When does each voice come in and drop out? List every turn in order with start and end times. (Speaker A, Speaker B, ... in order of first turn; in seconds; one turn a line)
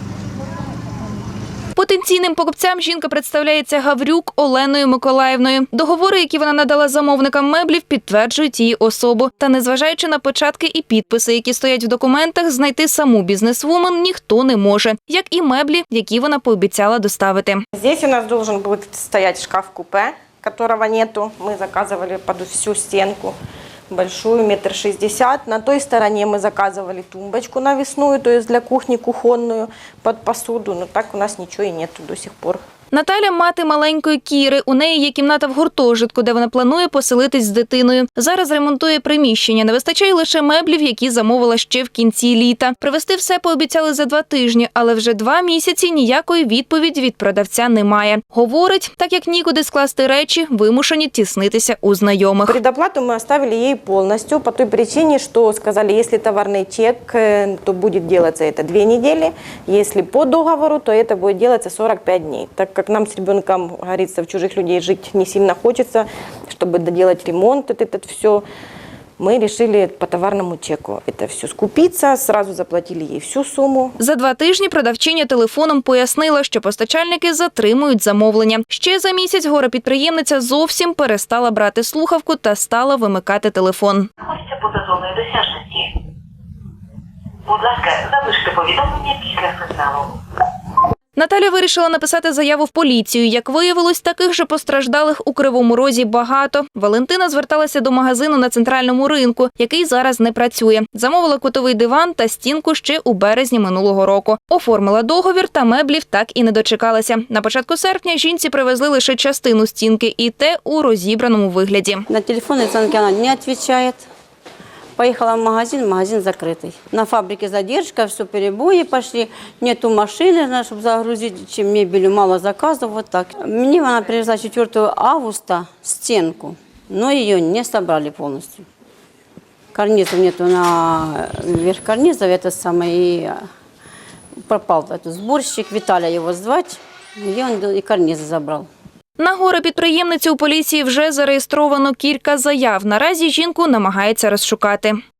Speaker A: 1.8-17.6
Speaker B: 17.7-23.4
Speaker B: 23.9-32.6
Speaker A: 32.9-52.6
Speaker B: 52.5-68.4
Speaker B: 69.2-74.0
Speaker A: 74.0-84.1
Speaker C: 84.2-85.8
Speaker C: 87.5-90.1
Speaker A: 91.2-112.1
Speaker D: 112.1-114.1
Speaker D: 115.0-128.7
Speaker D: 129.7-133.4
Speaker D: 134.5-138.7
Speaker A: 139.2-145.0